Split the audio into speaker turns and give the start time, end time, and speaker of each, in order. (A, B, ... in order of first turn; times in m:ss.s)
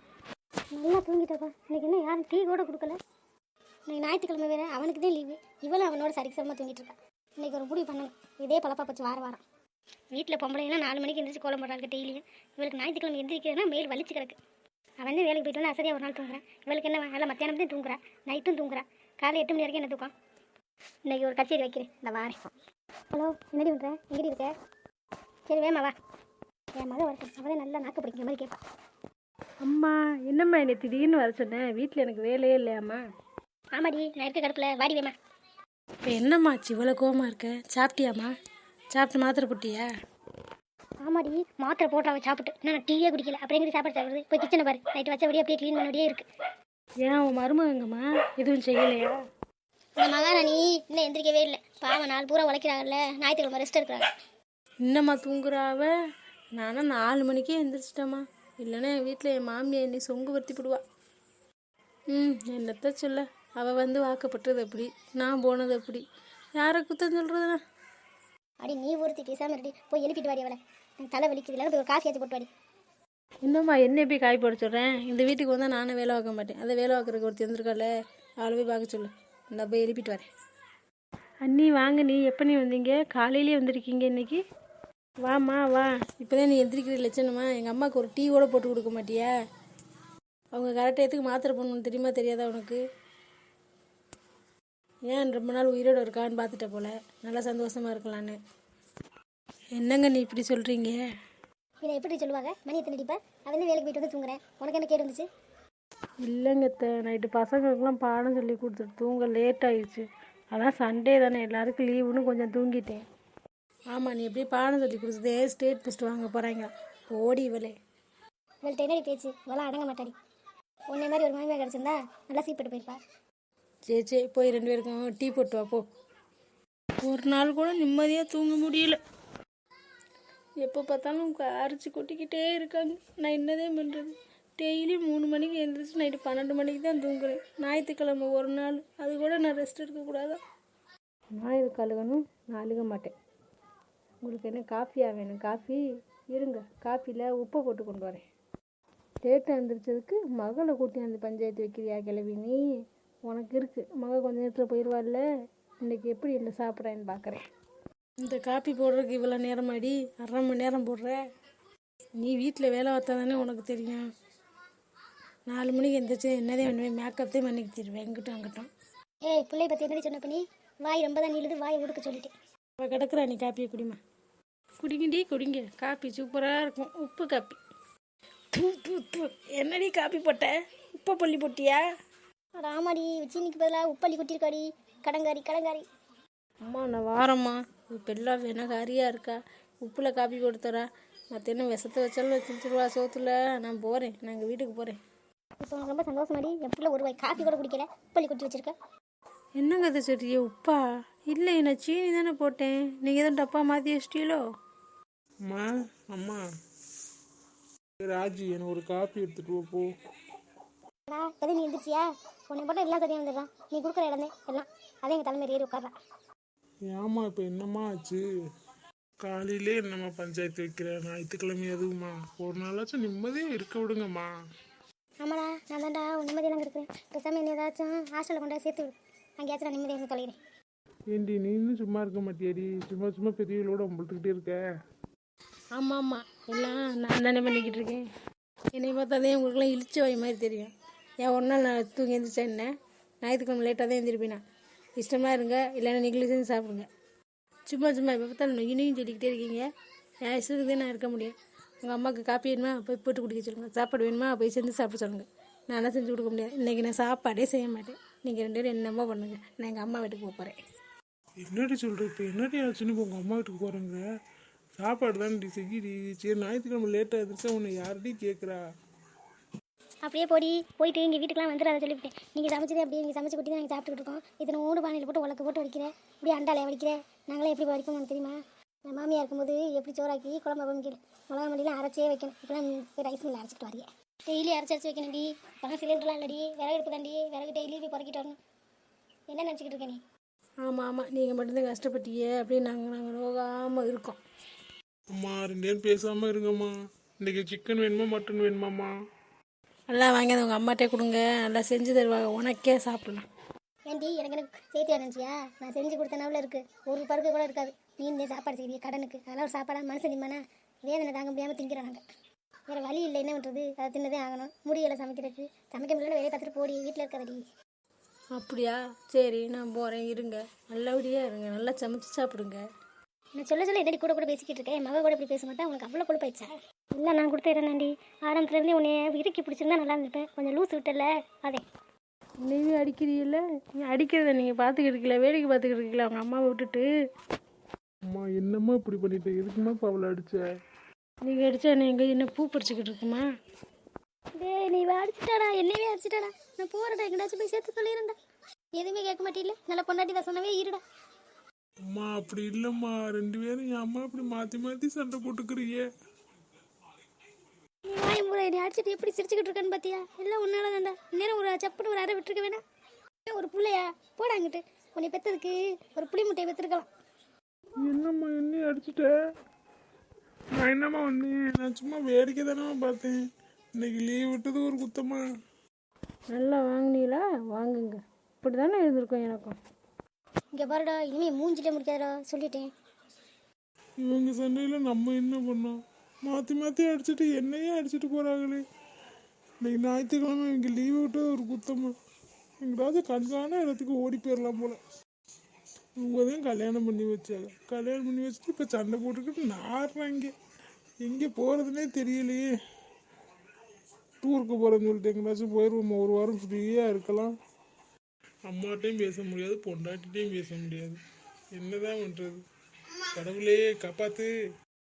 0:00.7-0:03.0 A
0:03.9-0:09.4 A
0:10.1-0:14.4 A
0:15.0-0:20.1 A
0:21.1-0:22.4 A
0:23.1-0:24.5 A
0:25.5-0:25.9 A
0:26.8-0:28.6 A
0:29.6-0:33.0 B
0:33.8-0:35.1 A
0:36.0-0:38.3 B
0:38.9-0:39.9 B
0:41.0-0:46.3 A
0:47.0-0:49.2 B
0:50.0-0:54.1 A
0:54.9-0:55.9 B
0:56.6-1:00.8 B
1:02.1-1:06.0 B
1:06.6-1:07.6 B
1:08.6-1:12.5 A
1:13.5-1:17.9 B
1:18.4-1:20.3 B
1:21.4-1:24.4 B
1:25.2-1:29.3 B
1:30.5-1:32.8 B
1:35.1-1:38.4 B
1:39.8-1:41.0 B
1:41.8-1:45.3 A
1:46.2-1:53.0 B
1:53.9-1:57.8 B
1:58.6-2:00.2 A
2:00.9-2:03.0 A
2:03.9-2:05.8 B
2:07.0-2:09.0 B
2:10.6-2:20.4 B
2:21.4-2:23.1 B
2:24.2-2:28.2 B
2:29.2-2:32.6 B
2:33.3-2:35.2 B
2:35.8-2:37.4 B
2:38.2-2:41.2 B
2:42.2-2:44.0 B
2:45.5-2:48.7 B
2:49.2-2:52.3 A
2:52.8-2:54.0 B
2:54.8-2:57.6 B
2:58.5-3:01.8 B
3:02.6-3:05.8 A
3:06.7-3:15.0 B
3:15.6-3:18.7 A
3:19.6-3:24.4 B
3:25.5-3:26.4 C
3:28.0-3:29.9 C
3:31.1-3:35.9 A
3:36.9-3:38.2 C
3:39.2-3:44.3 C
3:45.2-3:50.4 A
3:51.1-3:54.7 C
3:55.8-3:58.0 B
3:58.7-4:00.7 B
4:01.2-4:02.7 B
4:03.2-4:04.4 B
4:05.0-4:06.9 B
4:07.7-4:09.7 B
4:10.2-4:20.6 B
4:21.4-4:24.0 C
4:24.8-4:28.6 C
4:30.0-4:38.4 A
4:38.9-4:48.4 A
4:49.3-4:50.0 A
4:50.6-4:54.2 B
4:55.1-4:58.9 C
4:59.9-5:03.3 B
5:03.9-5:12.0 A
5:12.7-5:17.4 A
5:18.4-5:22.6 B
5:23.4-5:31.6 A
5:32.4-5:36.9 B
5:38.1-5:40.4 C
5:41.2-5:43.2 B
5:44.4-5:48.2 A
5:48.7-5:50.8 A
5:51.9-5:55.9 C
5:57.9-6:02.6 A
6:03.3-6:06.9 A
6:07.8-6:09.1 C
6:10.6-6:13.3 C
6:13.8-6:15.2 C
6:16.3-6:19.6 B
6:20.5-6:22.7 A
6:24.0-6:28.6 C
6:29.6-6:32.0 C
6:32.6-6:34.8 C
6:36.0-6:40.3 C
6:41.0-6:42.6 C
6:44.2-6:47.3 C
6:48.5-6:51.0 C
6:51.6-6:52.4 C
6:53.2-6:54.3 C